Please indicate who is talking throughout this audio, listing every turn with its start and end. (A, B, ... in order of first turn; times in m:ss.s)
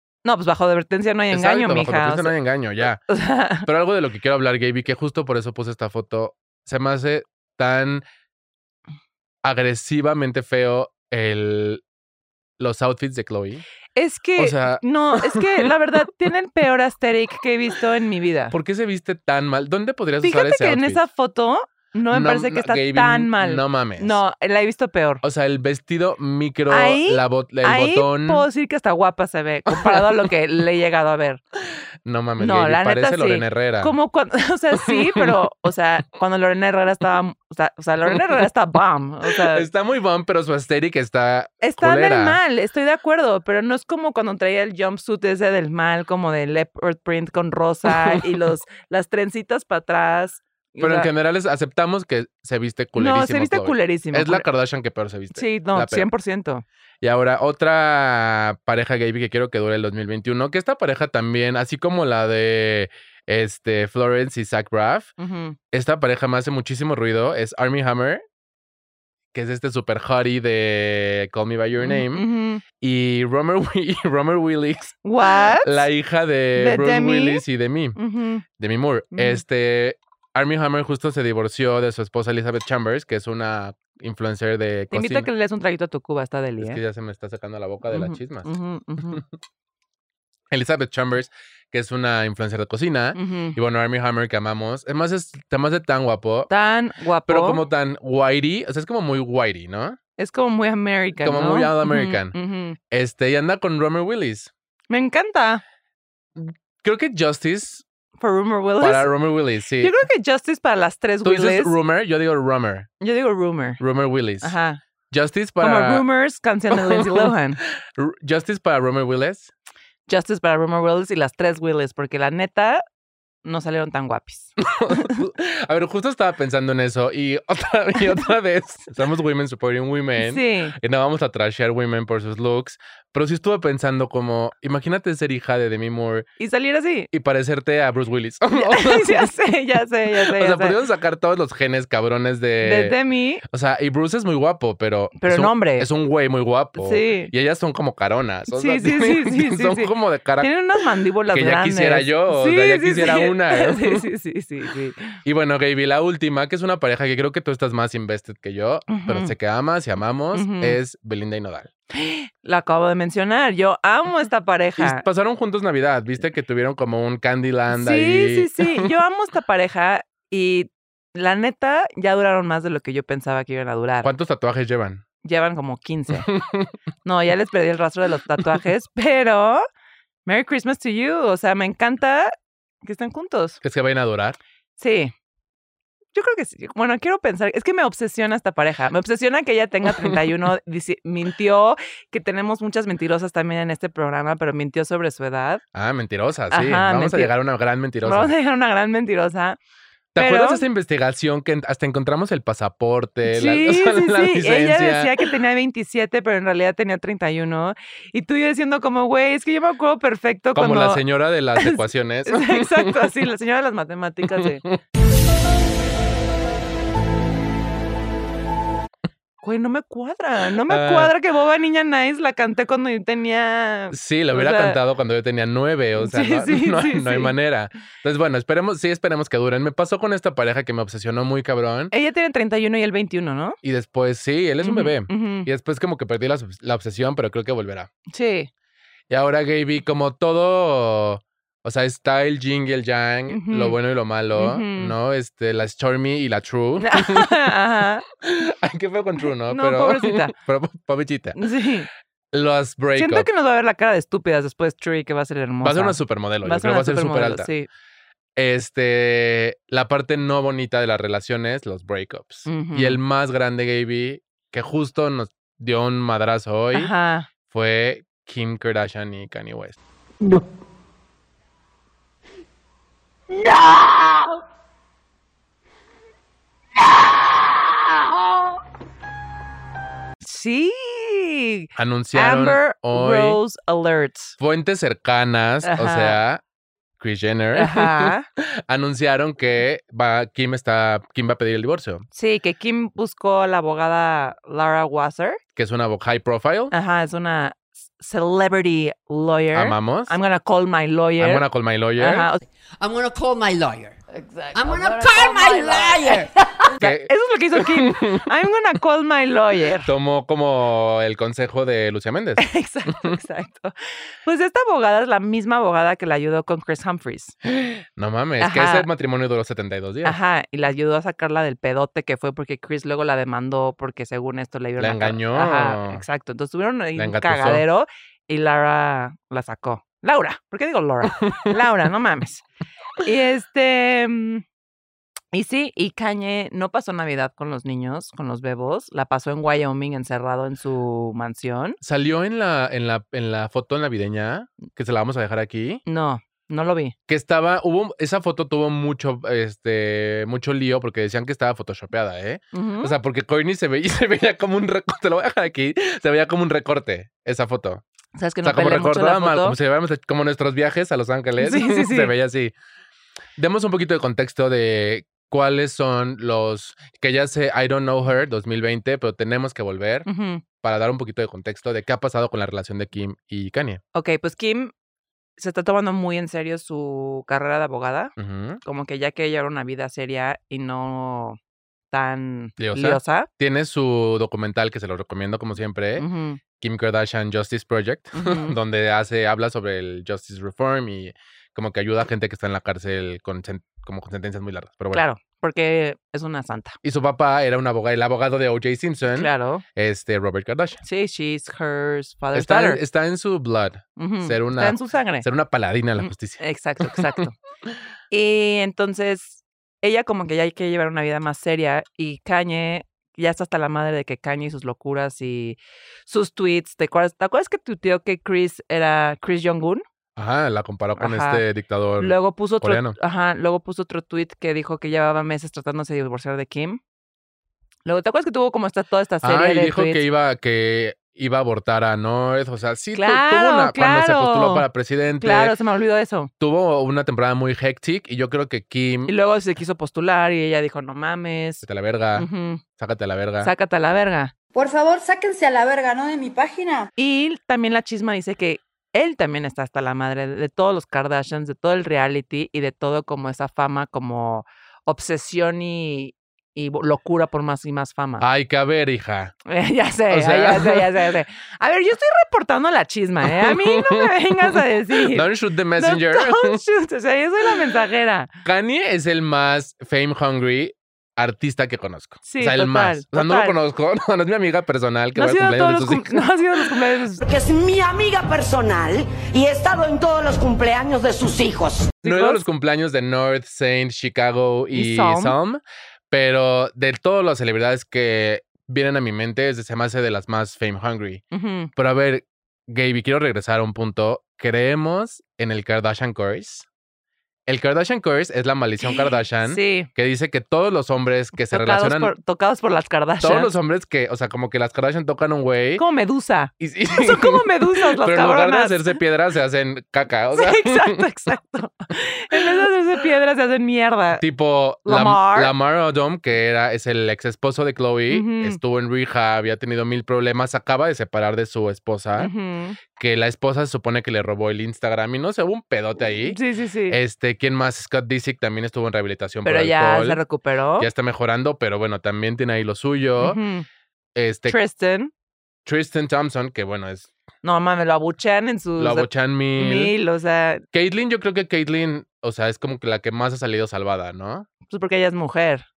0:00.2-0:02.3 A
0:01.3-0:03.0 B
0:03.1-0:03.7 A
0:03.6-0:08.0 B
0:09.4-0:11.8 B
0:12.6-0:13.6 B
0:14.0-0:18.5 A
0:14.4-0:15.7 B
0:18.5-0:21.0 B
0:20.2-0:25.2 A
0:22.1-0:24.2 B
0:25.2-0:28.5 B
0:26.7-0:31.4 A
0:29.7-0:30.3 B
0:32.0-0:33.9 B
0:32.4-0:39.7 A
0:34.8-0:35.3 B
0:38.0-0:38.4 B
0:39.2-0:42.4 B
0:41.6-0:51.1 A
0:47.8-0:48.2 B
0:50.8-0:56.1 B
0:53.0-0:54.4 A
0:55.3-0:56.6 A
0:57.0-1:05.1 B
1:05.2-1:05.6 A
1:05.7-1:08.2 B
1:09.3-1:12.2 B
1:11.8-1:12.6 A
1:12.8-1:15.0 B
1:15.0-1:15.9 A
1:15.5-1:18.0 B
1:16.6-1:17.4 A
1:18.0-1:18.4 A
1:18.6-1:25.3 B
1:19.1-1:19.4 A
1:24.9-1:26.8 A
1:26.6-1:28.5 B
1:27.9-1:29.2 A
1:30.5-1:36.5 B
1:33.1-1:33.6 A
1:36.5-1:37.6 A
1:37.3-1:40.0 B
1:40.2-1:42.8 A
1:41.2-1:42.3 B
1:42.9-1:44.5 B
1:44.9-1:45.6 A
1:46.4-1:47.8 B
1:48.2-1:49.1 A
1:48.8-1:49.9 B
1:49.8-1:51.8 A
1:51.2-1:52.9 B
1:53.0-1:53.8 A
1:53.8-1:54.5 B
1:54.4-1:54.8 A
1:55.1-1:56.0 B
1:55.6-1:57.6 A
1:56.7-1:57.3 B
1:57.9-1:59.5 B
2:00.1-2:02.8 A
2:03.4-2:05.2 A
2:04.6-2:16.3 B
2:10.2-2:10.7 A
2:16.4-2:17.1 A
2:17.1-2:19.3 B
2:18.6-2:20.8 A
2:20.1-2:30.5 B
2:22.6-2:23.4 A
2:25.2-2:25.9 A
2:26.8-2:27.3 A
2:28.5-2:35.1 A
2:31.3-2:34.0 B
2:35.2-2:41.7 B
2:38.9-2:39.3 A
2:40.3-2:40.8 A
2:41.9-2:45.0 A
2:44.8-2:48.9 B
2:47.7-2:54.1 A
2:54.0-2:55.0 B
2:55.2-2:56.3 A
2:56.2-2:56.7 B
2:57.0-2:59.6 A
3:00.2-3:03.6 A
3:03.6-3:04.4 B
3:04.8-3:05.1 A
3:06.1-3:15.6 A
3:15.7-3:18.3 B
3:16.5-3:17.3 A
3:18.0-3:19.6 A
3:20.1-3:25.2 B
3:20.2-3:20.6 A
3:23.3-3:31.0 A
3:30.5-3:33.1 B
3:31.6-3:34.6 A
3:34.2-3:34.8 B
3:39.4-3:44.8 A
3:40.6-3:41.1 B
3:43.9-3:51.9 B
3:46.0-3:47.3 A
3:51.9-3:53.6 A
3:53.6-3:57.9 B
3:54.6-3:55.5 A
3:58.1-3:58.5 A
3:59.1-4:07.3 B
4:03.3-4:03.8 A
4:04.3-4:04.9 A
4:06.8-4:08.0 A
4:08.2-4:11.4 B
4:09.5-4:10.3 A
4:11.4-4:11.9 A
4:12.3-4:13.3 B
4:12.9-4:17.7 A
4:15.6-4:17.5 B
4:18.4-4:26.9 B
4:22.5-4:23.0 A
4:26.7-4:27.3 A
4:27.5-4:29.8 B
4:40.2-4:44.3 A
4:41.8-4:43.4 B
4:44.4-4:46.4 B
4:45.6-4:46.2 A
4:47.0-4:52.0 B
4:47.5-4:48.2 A
4:52.1-4:55.4 A
4:55.6-4:56.7 B
4:56.7-5:02.4 A
4:59.5-5:00.1 B
5:01.2-5:02.3 B
5:02.8-5:04.0 C
5:04.5-5:06.3 C
5:06.8-5:09.9 A
5:06.8-5:08.2 B
5:09.8-5:13.2 B
5:12.4-5:13.7 A
5:14.2-5:17.4 A
5:17.6-5:20.2 B
5:18.4-5:18.9 A
5:20.0-5:32.4 A
5:24.8-5:26.0 B
5:27.0-5:27.6 B
5:31.0-5:31.5 B
5:33.0-5:34.4 A
5:35.3-5:41.8 A
5:41.8-5:45.8 B
5:45.8-5:46.9 A
5:47.1-5:57.8 B
5:52.5-5:52.9 A
5:58.2-5:59.6 A
5:58.4-6:02.5 B
6:01.4-6:02.1 A
6:03.4-6:10.0 B
6:10.1-6:10.4 A
6:10.6-6:13.8 B
6:13.9-6:14.7 A
6:15.4-6:18.1 A
6:18.2-6:18.6 B
6:18.6-6:21.4 A
6:21.9-6:23.3 A
6:22.6-6:26.0 B
6:26.0-6:26.4 A
6:26.6-6:35.0 B
6:28.1-6:28.5 A
6:34.9-6:36.8 A
6:36.8-6:40.8 B
6:39.1-6:39.6 A
6:40.8-6:42.8 A
6:42.3-6:47.2 B
6:44.0-6:45.3 A
6:46.0-6:47.3 A
6:48.1-6:59.8 A
7:00.2-7:03.0 B
7:01.0-7:01.4 A
7:02.0-7:06.8 A
7:07.8-7:10.0 A
7:09.2-7:15.5 B
7:12.9-7:14.7 A
7:15.2-7:16.3 A
7:16.4-7:19.1 B
7:19.1-7:21.6 A
7:21.6-7:23.5 B
7:22.1-7:22.6 A
7:23.4-7:24.3 A
7:24.5-7:26.9 D
7:27.0-7:38.2 A
7:38.2-7:39.3 B
7:39.5-7:48.3 A
7:40.1-7:40.9 B
7:43.2-7:46.6 B
7:48.4-7:56.6 B
7:52.2-7:53.6 A
7:55.1-7:57.2 A
7:57.2-8:01.9 E
8:02.0-8:02.4 A
8:02.0-8:11.2 B
8:04.7-8:05.4 A
8:11.3-8:11.7 A
8:11.8-8:16.7 B
8:17.4-8:22.1 B
8:18.8-8:19.9 A
8:21.4-8:23.5 A
8:23.2-8:25.8 B
8:25.8-8:29.0 A
8:26.6-8:31.0 B
8:30.3-8:34.2 A
8:34.2-8:42.3 B
8:34.8-8:35.5 A
8:38.1-8:38.6 A
8:42.2-8:42.8 A
8:43.0-8:46.4 B
8:46.2-8:47.0 A
8:46.9-8:50.2 B
8:49.4-8:50.9 A
8:50.8-8:53.4 B
8:53.2-8:53.6 A
8:54.1-8:54.6 B
8:54.5-8:55.1 A
8:55.6-8:57.1 B
8:57.4-9:00.6 A
8:58.8-8:59.9 B
9:00.7-9:04.5 B
9:04.7-9:05.6 A